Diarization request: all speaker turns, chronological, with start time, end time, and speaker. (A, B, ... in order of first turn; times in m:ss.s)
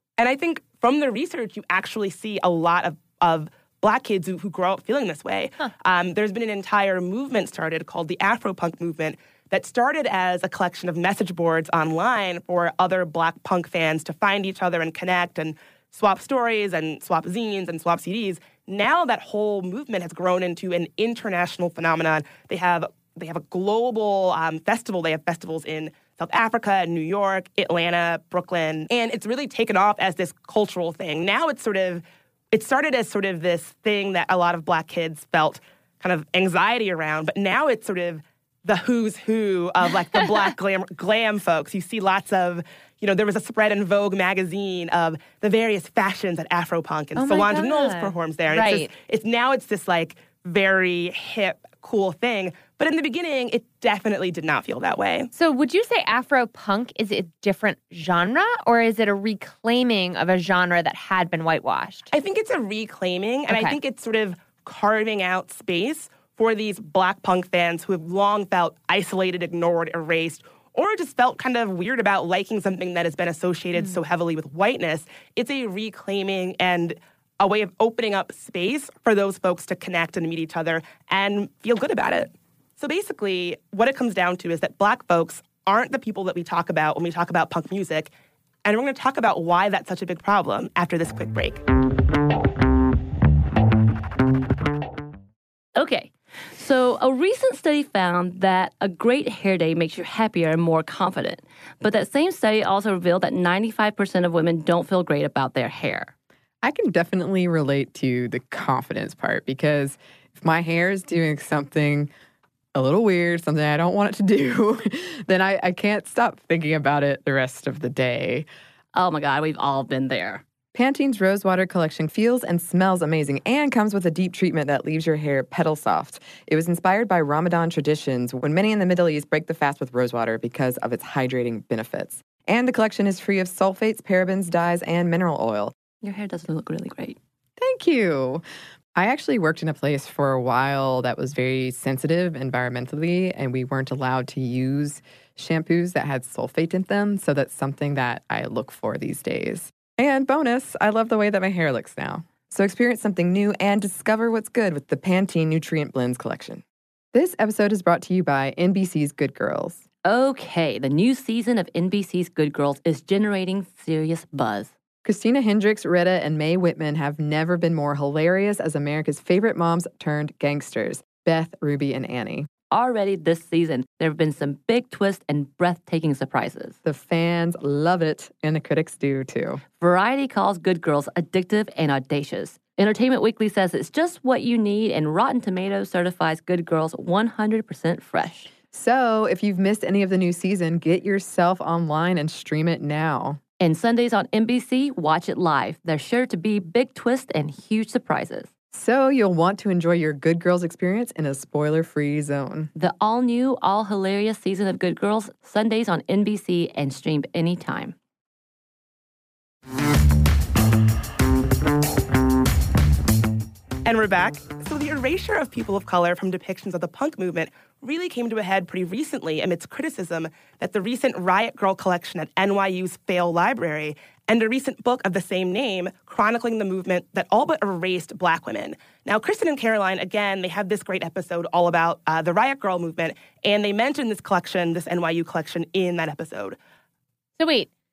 0:00.2-0:55.3 A
0:40.2-0:40.5 B
0:47.2-0:48.9 B
0:55.3-1:02.1 B
1:02.1-1:28.1 A
1:03.5-1:03.8 B
1:28.6-1:31.6 A
1:35.8-1:46.1 C
1:46.6-1:52.1 D
1:52.8-1:58.5 D
1:58.9-2:00.4 C
2:00.7-2:15.8 D
2:16.0-2:17.2 C
2:17.6-2:18.4 D
2:19.0-2:39.8 D
2:40.0-2:44.7 C
2:45.0-2:52.5 D
2:52.7-2:56.8 C
2:56.8-2:59.6 D
2:59.8-3:08.5 C
3:08.7-3:13.4 D
3:13.6-3:18.5 C
3:18.7-3:22.7 D
3:22.8-3:28.0 C
3:33.9-3:56.6 A
3:57.4-3:57.7 B